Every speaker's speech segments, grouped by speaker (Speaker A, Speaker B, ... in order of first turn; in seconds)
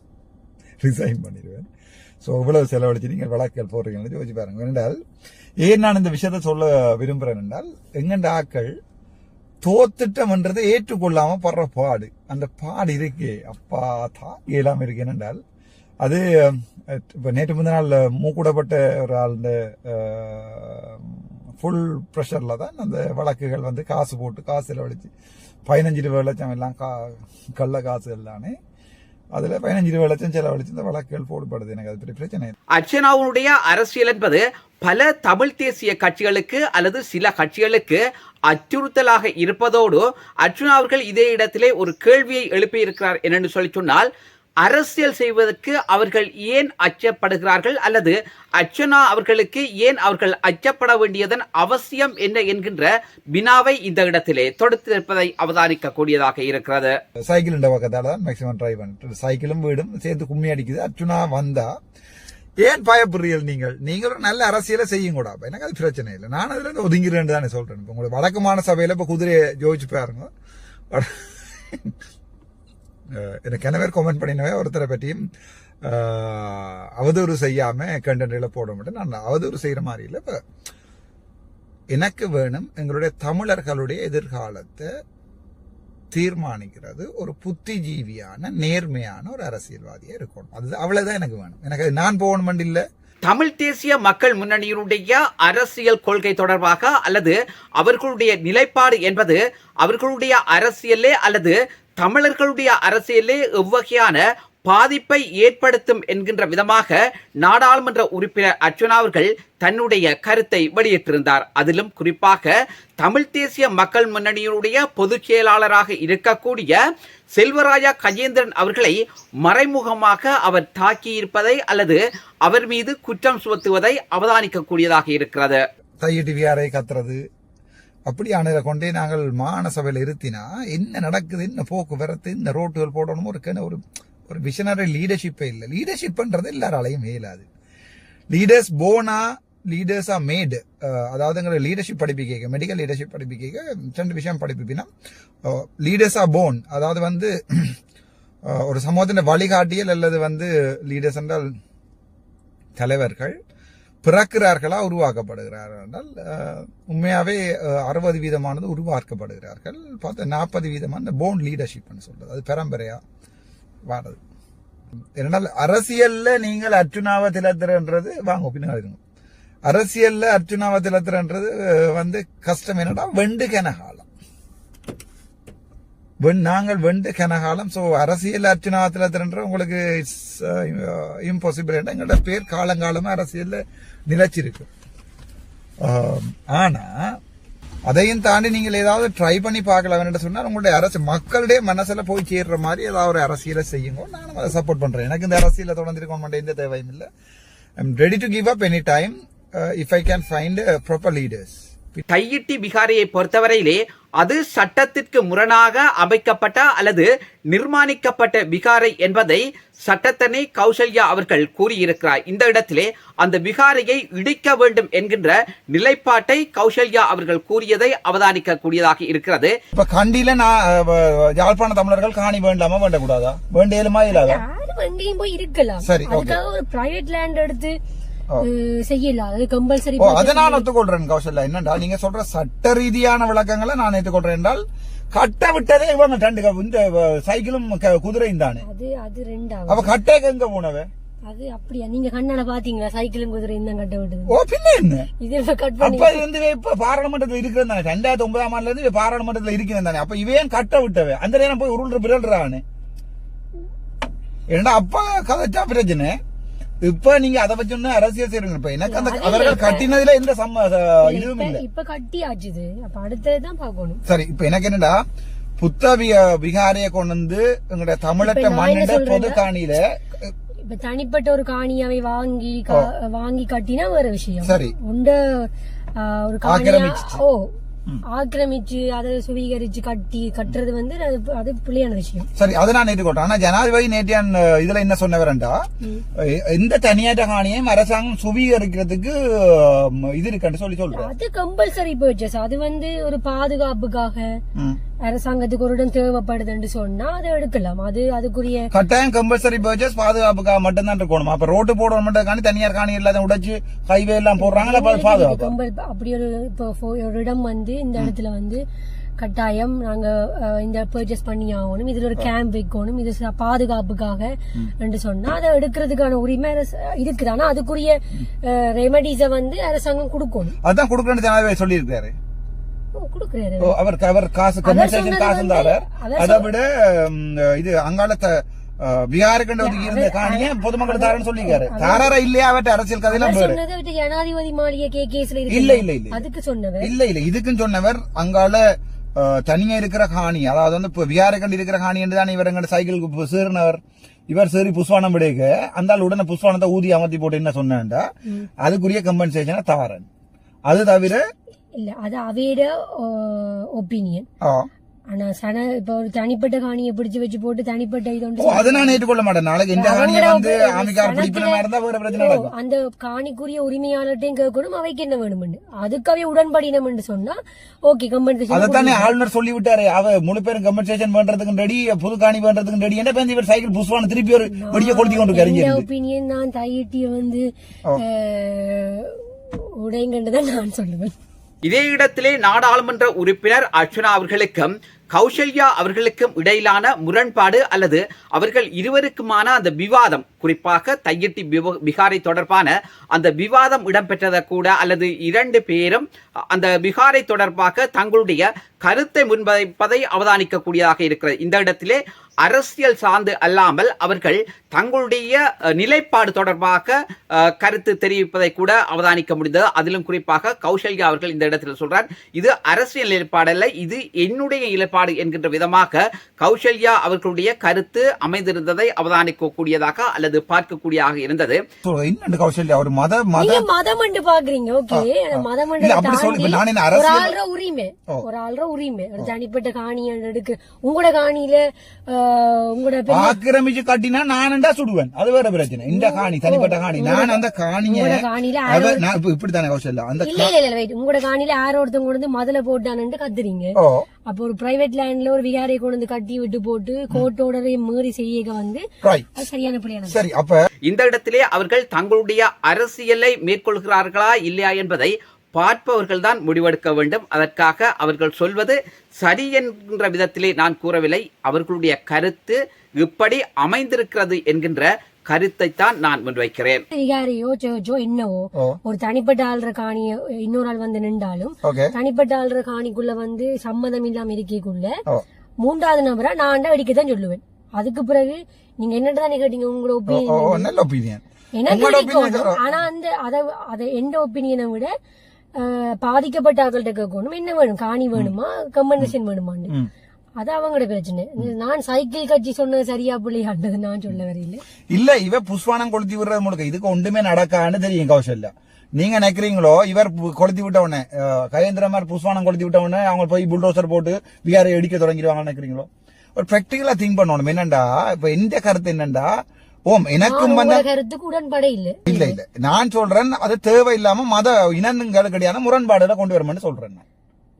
Speaker A: 0.8-1.7, 2.2-5.0, 5.6-8.7, 9.6-15.4, 16.0-25.1, 25.7-28.5, 29.4-32.5, 57.3-61.7, 62.6-70.3, 70.9-71.9, 73.1-75.2, 75.8-80.4, 81.9-84.9, 86.1-92.8, 126.0-127.2, 128.1-137.5, 138.3-144.9, 145.4-147.8, 148.5-151.5, 152.8-153.3, 154.0-163.0, 163.9-164.2, 165.2-169.0, 169.7-174.1, 176.2-184.7, 185.8-187.2, 187.9-197.1, 197.8-202.0, 219.7-224.4, 225.8-226.4, 230.0-238.6, 239.7-240.9, 244.3-245.1, 245.8-252.6, 254.5-256.2, 256.8-261.6, 264.1-265.0, 265.6-270.3, 274.4-274.7, 276.4-277.2, 282.3-285.6, 286.1-291.1, 294.5-294.8, 298.7-305.5, 320.6-322.1, 323.6-333.6, 335.5-336.2, 336.8-350.1, 350.7-351.2, 354.4-354.7, 358.4-362.5, 368.5-375.9, 421.8-423.6, 424.9-427.4, 433.1-440.5, 443.7-444.1, 449.0-449.4, 450.1-450.7, 471.6-471.9, 480.1-482.6, 494.9-510.8, 512.0-517.0
Speaker B: 32.8-44.1, 44.6-56.9, 93.2-116.8, 117.3-125.6, 202.1-219.5, 381.6-421.6, 450.9-466.8
Speaker C: 224.1-227.7, 228.4-230.6, 238.6-239.9, 241.2-244.3, 245.2-246.2, 258.9-259.9, 261.0-264.0, 268.2-269.4, 270.7-277.5, 278.1-282.3, 290.9-294.3, 295.0-298.7, 304.4-308.6, 309.2-320.6, 322.9-323.7, 324.6-326.5, 329.6-332.1, 333.1-336.9, 351.8-354.3, 355.1-359.0, 359.7-369.1, 374.5-377.4, 377.9-381.1, 423.4-433.4, 435.9-439.1, 440.2-443.8, 444.3-448.8, 449.4-450.2, 466.9-474.9, 475.6-480.7, 481.6-484.9, 485.6-489.7, 490.4-494.6, 510.2-512.4